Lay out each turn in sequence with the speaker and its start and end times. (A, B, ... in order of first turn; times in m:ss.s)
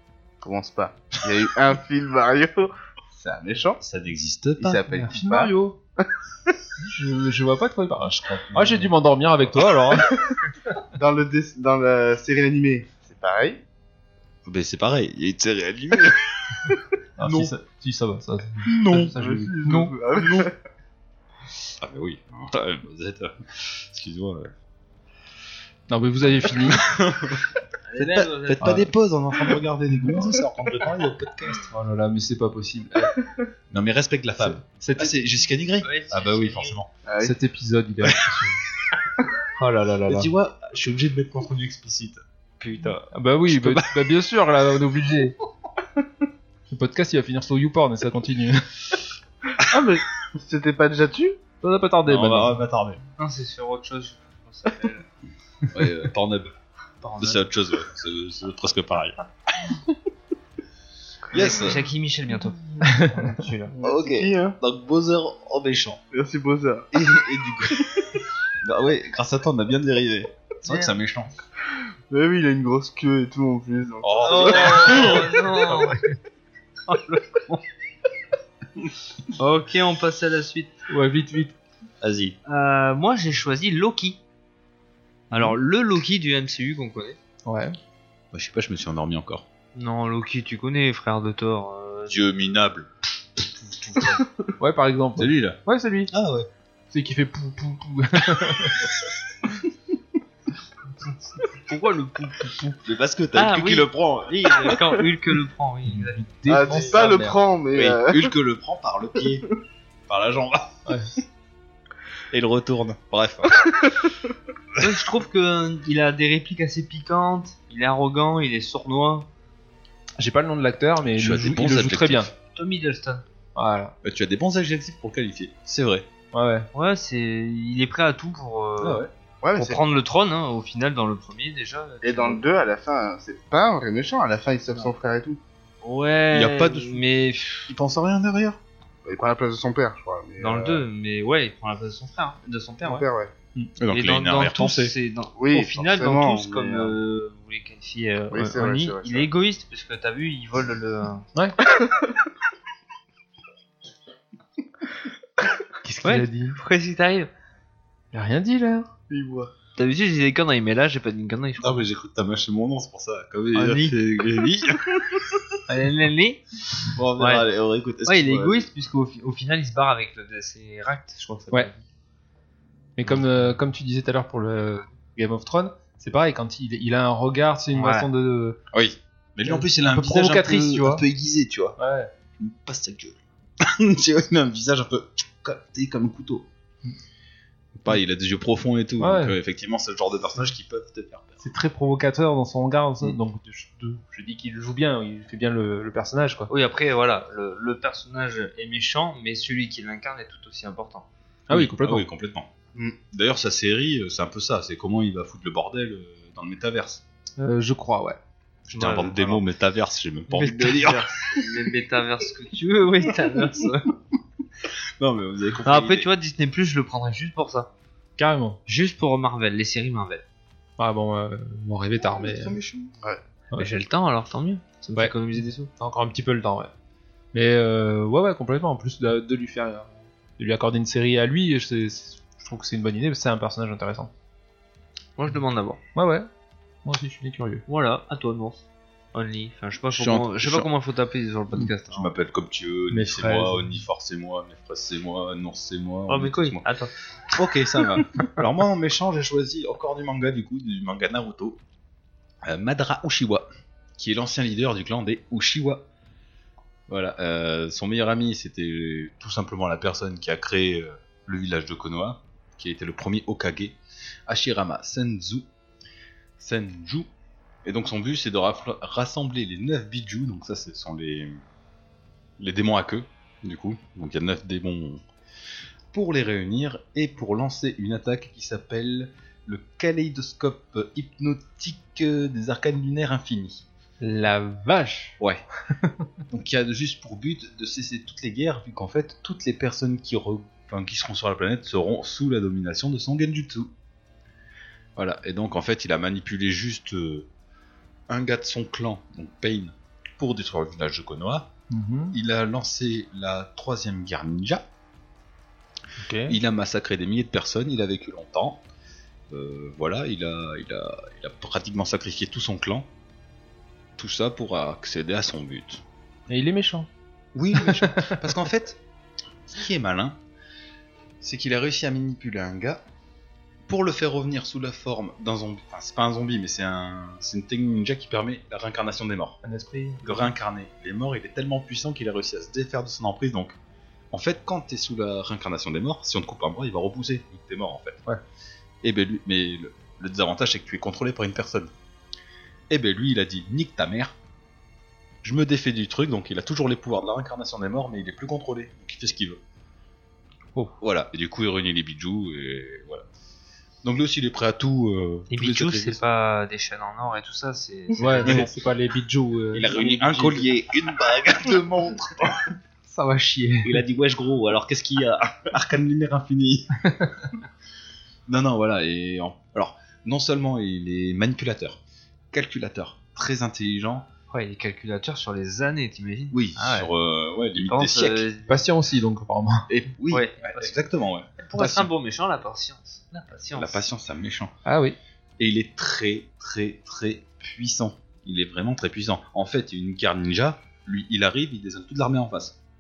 0:00.4-0:03.8 A
0:03.8-0:04.8 B
0:04.6-0:06.1 A
0:04.9-0:05.8 C
0:06.8-0:10.1 C
0:08.0-0:08.9 B
0:09.6-0:09.9 B
0:11.0-0:13.6 A
0:14.4-0:16.5 B
0:17.2-0:19.9 C
0:17.2-0:17.5 B
0:18.7-0:19.2 B
0:19.1-0:20.5 A
0:20.2-0:20.5 B
0:21.8-0:24.5 B
0:25.9-0:26.8 C
0:26.4-0:31.7 B
0:27.9-0:28.8 D
0:28.6-0:28.9 C
0:31.6-0:33.1 C
0:33.7-0:36.9 B
0:34.4-0:35.1 C
0:35.8-0:36.8 D
0:37.1-0:37.4 A
0:37.2-0:38.6 C
0:38.1-0:38.5 B
0:39.6-0:40.3 C
0:40.1-0:44.2 B
0:42.6-0:43.0 D
0:43.1-0:45.4 C
0:46.7-0:48.7 C
0:49.6-0:51.4 A
0:51.6-0:52.6 C
0:52.1-0:53.0 B
0:53.2-0:55.0 D
0:55.7-0:56.5 B
0:57.0-0:57.4 D
0:57.2-0:59.8 B
1:01.3-1:01.9 B
1:01.3-1:03.8 D
1:02.8-1:03.2 C
1:03.8-1:04.6 A
1:03.8-1:06.0 B
1:06.1-1:06.9 A
1:06.9-1:11.3 B
1:10.6-1:10.9 D
1:12.1-1:15.3 A
1:14.0-1:15.4 B
1:14.2-1:16.1 D
1:16.9-1:17.6 D
1:19.3-1:20.8 D
1:20.9-1:21.6 C
1:22.0-1:22.4 B
1:22.5-1:24.2 D
1:25.3-1:27.2 D
1:27.4-1:27.8 C
1:28.3-1:29.5 B
1:29.8-1:32.2 D
1:32.1-1:34.2 B
1:34.6-1:36.1 C
1:35.2-1:35.6 B
1:36.1-1:36.5 B
1:36.9-1:38.9 C
1:38.4-1:39.5 B
1:41.5-1:42.8 D
1:42.8-1:44.8 B
1:43.3-1:47.2 D
1:45.9-1:47.4 C
1:46.5-1:48.3 A
1:47.7-1:49.5 B
1:50.1-1:50.8 B
1:50.9-1:51.1 C
1:52.3-1:54.0 B
1:54.8-1:59.3 D
2:00.2-2:02.3 C
2:01.1-2:02.3 B
2:02.5-2:03.2 D
2:03.6-2:04.0 C
2:04.0-2:06.1 B
2:06.3-2:06.7 C
2:06.7-2:09.0 D
2:08.8-2:09.1 B
2:09.4-2:09.8 A
2:09.6-2:12.4 D
2:12.0-2:15.4 A
2:15.8-2:17.7 D
2:16.3-2:17.0 B
2:17.7-2:18.6 B
2:19.0-2:20.8 A
2:20.4-2:23.1 D
2:22.8-2:23.3 A
2:23.8-2:24.9 B
2:23.9-2:31.3 D
2:25.4-2:27.0 A
2:28.3-2:29.3 A
2:35.8-2:36.6 C
2:36.0-2:37.3 D
2:38.1-2:38.9 C
2:39.1-2:39.5 A
2:39.8-2:41.8 D
2:41.6-2:45.4 B
2:43.5-2:44.5 D
2:45.7-2:47.5 D
2:46.9-2:48.7 B
2:48.0-2:51.8 D
2:53.0-2:58.6 C
2:57.7-2:58.1 D
2:58.7-3:01.8 B
2:59.4-3:01.0 C
3:01.8-3:02.1 C
3:02.4-3:06.5 B
3:07.8-3:11.4 B
3:09.0-3:09.4 C
3:11.4-3:16.5 C
3:16.5-3:21.1 D
3:21.5-3:22.0 C
3:21.5-3:22.5 B
3:23.1-3:27.0 B
3:27.4-3:28.2 C
3:28.7-3:29.4 D
3:28.8-3:31.5 B
3:30.3-3:33.9 D
3:35.0-3:36.1 B
3:35.6-3:37.7 D
3:38.2-3:38.6 C
3:38.7-3:40.2 D
3:40.8-3:42.6 C
3:42.0-3:42.9 B
3:43.6-3:45.7 D
3:45.8-3:46.7 C
3:47.3-3:54.1 C
3:55.2-3:55.8 D
3:56.0-3:56.3 C
3:56.8-3:57.6 C
3:57.7-4:02.1 D
3:59.9-4:00.7 B
4:01.9-4:06.6 B
4:02.9-4:03.8 C
4:06.1-4:06.9 D
4:07.3-4:11.6 B
4:12.4-4:15.9 B
4:16.9-4:25.5 B
4:26.4-4:27.1 B
4:27.6-4:31.4 B
4:32.4-4:35.0 B
4:35.9-4:43.6 B
4:44.0-4:45.2 C
4:45.8-4:46.0 C
4:46.3-4:53.7 B
4:55.0-4:57.3 B
4:58.1-5:01.5 B
5:01.7-5:02.2 C
5:02.1-5:04.7 B
5:06.0-5:06.4 C
5:06.3-5:08.6 B
5:09.3-5:12.9 B
5:14.0-5:15.8 B
5:16.3-5:16.9 C
5:17.3-5:18.8 B
5:17.6-5:18.2 C
5:19.5-5:20.2 B
5:21.2-5:22.8 B
5:23.7-5:29.4 B
5:29.4-5:30.3 C
5:30.0-5:33.6 B
5:34.1-5:38.0 B
5:38.8-5:41.7 B
5:42.7-5:44.2 B
5:45.2-5:49.4 B
5:50.8-5:53.1 B
5:53.8-5:56.0 B
5:55.3-5:58.5 D
5:58.0-6:00.5 C
5:58.2-5:58.5 B
5:59.5-6:02.5 B
6:02.9-6:03.8 C
6:03.6-6:07.1 B
6:08.3-6:11.8 B
6:12.3-6:14.1 B
6:14.3-6:16.9 D
6:16.3-6:18.3 B
6:17.6-6:18.7 D
6:18.5-6:19.7 C
6:19.7-6:21.9 B
6:20.1-6:20.8 D
6:21.4-6:23.8 D
6:23.6-6:24.5 B
6:24.6-6:25.0 C
6:25.4-6:32.6 B